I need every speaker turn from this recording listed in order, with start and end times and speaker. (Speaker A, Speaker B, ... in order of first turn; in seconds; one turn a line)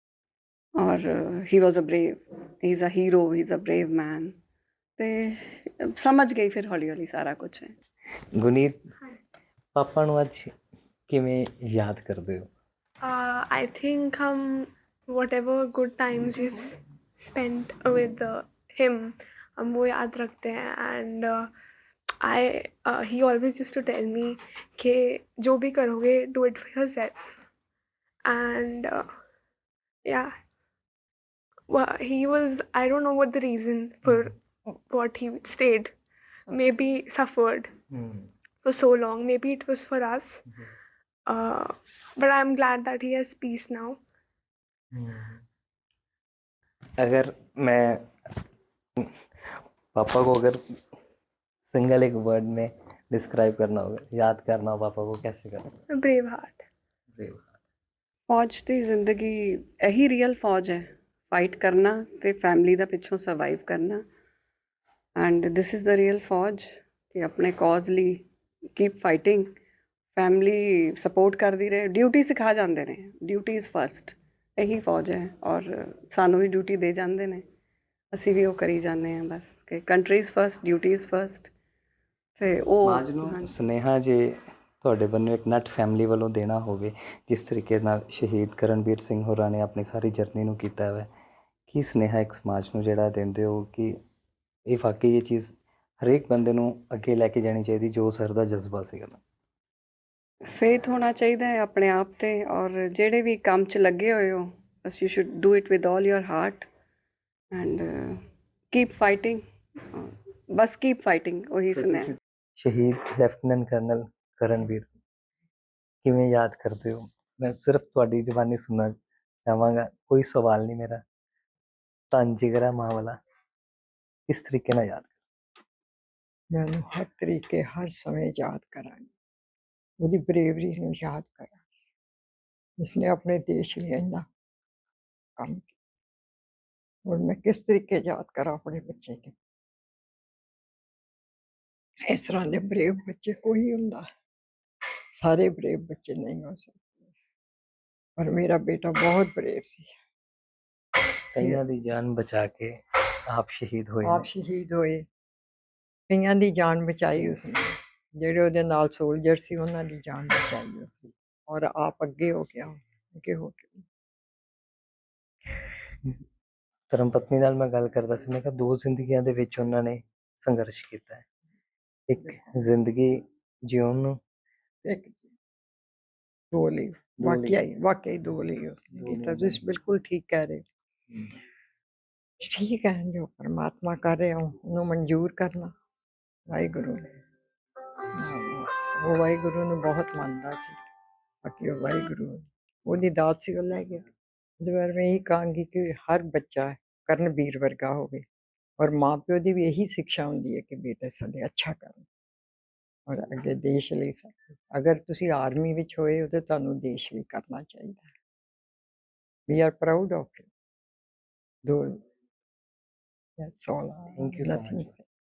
Speaker A: 0.8-4.3
Speaker A: 5.0-7.7
Speaker B: 8.3-8.8
Speaker B: 9.8-10.5
Speaker B: 11.1-12.5
Speaker C: 13.0-21.5
Speaker C: 22.2-27.2
Speaker C: 28.2-29.1
Speaker C: 30.1-30.3
Speaker C: 31.7-35.9
Speaker C: 36.5-37.7
Speaker B: 37.9-38.3
Speaker C: 38.6-40.4
Speaker C: 41.3-44.0
Speaker B: 44.9-45.4
Speaker B: 47.0-48.0
Speaker B: 49.9-50.6
Speaker B: 51.7-55.8
Speaker C: 55.9-56.6
Speaker B: 57.1-57.5
Speaker A: 58.3-64.0
Speaker A: 65.2-68.2
Speaker A: 68.8-69.5
Speaker A: 70.2-77.4
Speaker A: 78.1-81.5
Speaker A: 82.4-83.5
Speaker B: 82.8-91.1
Speaker B: 91.7-94.0
Speaker B: 94.7-99.2
Speaker A: 100.5-106.7
Speaker A: 107.5-108.2
Speaker A: 108.7-109.4
Speaker A: 109.9-112.1
Speaker B: 111.8-114.9
Speaker B: 116.0-121.0
Speaker B: 122.1-123.2
Speaker B: 124.3-125.1
Speaker D: 126.5-129.1
Speaker D: 130.0-131.6
Speaker D: 132.8-134.3
Speaker D: 135.4-135.7
Speaker D: 137.1-139.3
Speaker D: 142.1-144.1
Speaker D: 145.2-147.1
Speaker D: 148.2-149.9
Speaker B: 151.3-154.3
Speaker D: 154.0-155.1
Speaker D: 156.1-163.9
Speaker B: 166.9-171.2
Speaker B: 172.1-174.2
Speaker D: 174.8-175.3
Speaker D: 176.5-180.6
Speaker B: 177.2-177.6
Speaker B: 179.0-179.6
Speaker D: 182.4-185.7
Speaker D: 186.5-187.2
Speaker D: 188.2-190.8
Speaker D: 191.4-194.1
Speaker D: 194.6-198.3
Speaker D: 198.8-202.1
Speaker D: 203.1-208.1
Speaker D: 209.5-210.5
Speaker D: 211.6-212.0
Speaker D: 213.4-215.0
Speaker B: 214.2-214.9